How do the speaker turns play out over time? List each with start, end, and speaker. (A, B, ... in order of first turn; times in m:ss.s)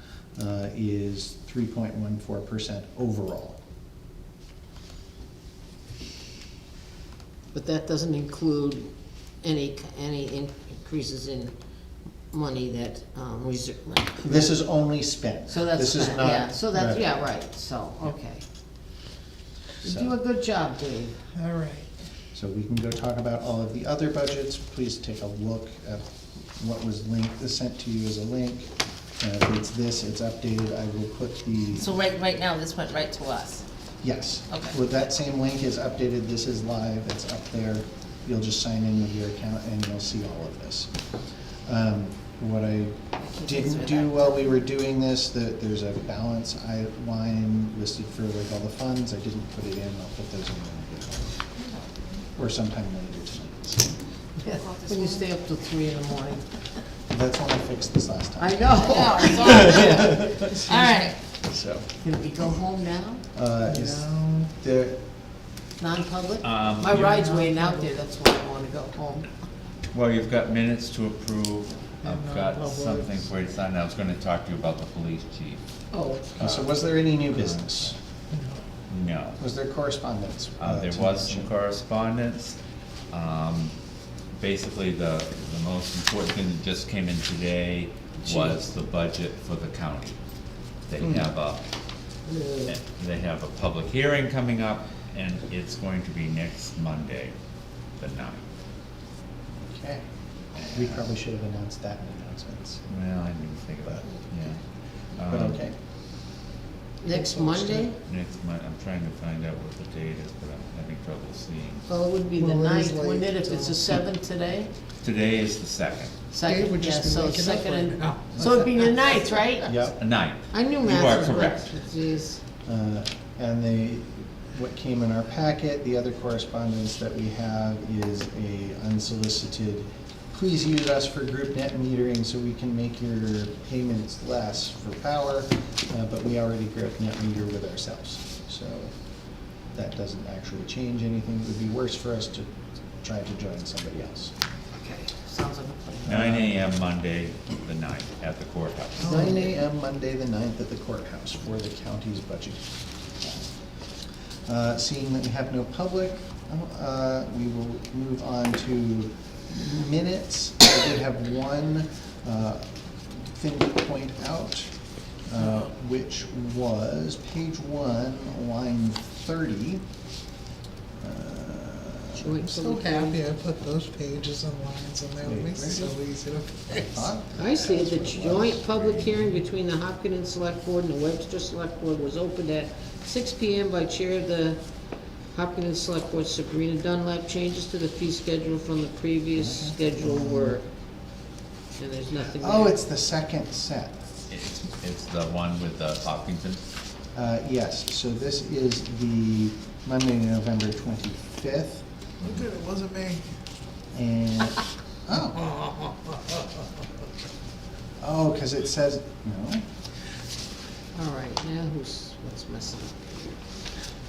0:00.4-0:03.6 A
0:07.5-0:08.9 B
0:09.4-0:11.6 B
0:12.3-0:14.5 B
0:14.2-0:17.0 A
0:15.5-0:18.4 B
0:19.8-0:21.2 B
0:19.8-0:20.2 A
0:21.3-0:21.9 C
0:22.3-0:31.9 A
0:31.8-0:33.6 D
0:34.0-0:40.9 A
0:41.7-0:51.4 A
0:43.2-0:44.5 D
0:51.6-0:52.1 D
0:52.4-0:54.0 A
0:54.4-0:56.5 B
0:54.6-0:55.3 D
0:57.1-1:01.0 A
0:58.4-1:00.1 B
0:58.8-1:01.2 D
1:01.5-1:01.9 A
1:02.0-1:03.2 B
1:03.3-1:05.0 A
1:03.7-1:04.5 C
1:05.8-1:09.3 B
1:06.4-1:07.1 E
1:07.0-1:07.9 C
1:09.9-1:15.6 E
1:12.0-1:13.3 C
1:15.9-1:16.6 B
1:16.4-1:18.0 A
1:16.4-1:16.7 E
1:17.2-1:17.9 E
1:18.3-1:18.6 C
1:18.9-1:19.4 E
1:19.4-1:21.5 A
1:20.6-1:22.6 E
1:23.1-1:23.7 E
1:24.3-1:30.2 E
1:28.2-1:28.6 B
1:30.9-1:31.6 E
1:32.3-1:32.8 B
1:32.7-1:37.4 E
1:38.0-1:38.4 E
1:39.6-1:40.0 A
1:40.6-1:41.0 E
1:40.7-1:42.9 A
1:42.9-1:44.6 E
1:45.2-1:45.6 E
1:45.3-1:45.8 A
1:47.0-1:48.0 B
1:47.1-1:47.9 C
1:48.0-1:51.9 E
1:51.9-1:54.7 B
1:52.4-1:54.0 C
1:55.0-1:56.1 E
1:56.3-1:59.8 B
1:56.4-1:59.1 C
1:59.6-2:00.0 A
2:00.0-2:01.7 E
2:00.5-2:02.4 B
2:02.7-2:18.9 A
2:19.7-2:22.5 A
2:23.0-2:24.3 A
2:24.8-2:26.3 B
2:26.0-2:29.2 E
2:26.1-2:26.6 A
2:29.0-2:32.6 A
2:29.0-2:29.5 B
2:34.5-2:44.7 A
2:45.3-2:49.8 A
2:51.0-2:52.4 A
2:52.2-2:53.2 B
2:52.4-2:57.1 C
2:55.2-2:56.0 A
2:56.8-2:58.6 A
2:57.4-3:04.6 B
3:05.3-3:10.6 B
3:09.3-3:10.6 A
3:11.8-3:12.8 B
3:12.4-3:14.0 A
3:14.3-3:16.6 E
3:17.1-3:21.8 A
3:22.2-3:23.2 C
3:23.9-3:25.4 A
3:28.0-3:29.6 A
3:30.9-3:33.4 B